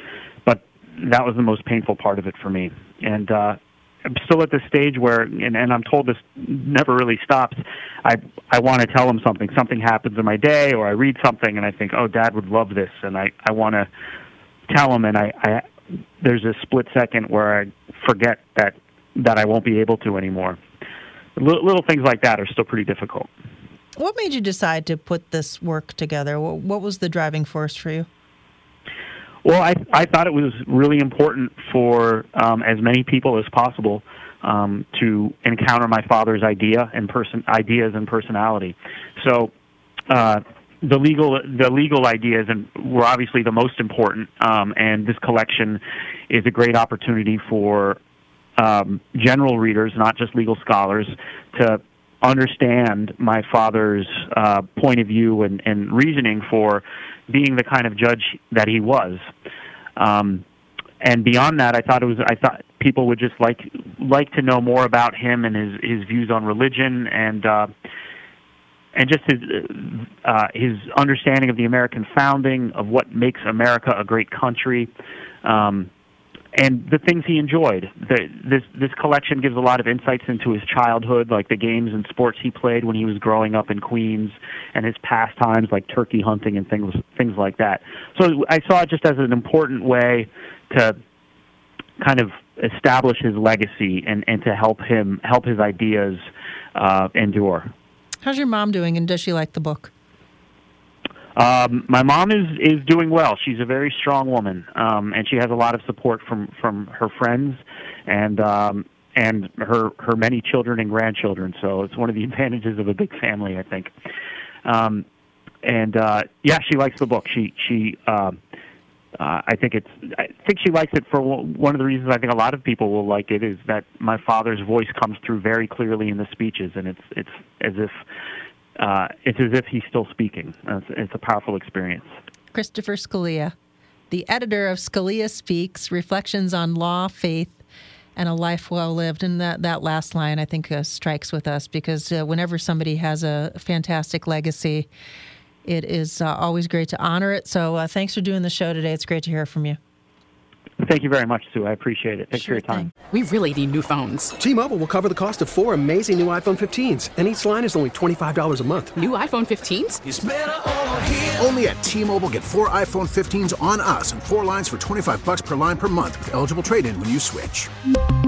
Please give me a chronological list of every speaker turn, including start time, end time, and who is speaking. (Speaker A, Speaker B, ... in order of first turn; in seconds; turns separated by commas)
Speaker A: 0.4-13.9, Speaker A: 14.7-15.6, Speaker A: 16.2-20.6, Speaker A: 21.4-23.3, Speaker B: 24.0-28.1, Speaker A: 29.4-39.5, Speaker A: 40.1-48.0, Speaker A: 48.6-59.2, Speaker A: 60.0-60.4, Speaker A: 61.0-67.7, Speaker A: 68.9-74.9, Speaker A: 75.4-75.9, Speaker A: 76.5-91.0, Speaker A: 92.0-96.2, Speaker A: 96.7-97.7, Speaker B: 98.2-99.9, Speaker A: 101.3-113.9, Speaker A: 114.6-115.0, Speaker A: 115.6-118.4, Speaker A: 119.2-128.0, Speaker A: 128.8-132.1, Speaker B: 132.5-133.5, Speaker B: 134.1-137.6, Speaker B: 138.2-144.9, Speaker B: 145.6-149.8, Speaker A: 150.8-152.9, Speaker B: 152.3-152.9, Speaker C: 153.1-154.3, Speaker D: 154.4-159.0, Speaker C: 159.0-160.0, Speaker E: 160.1-167.7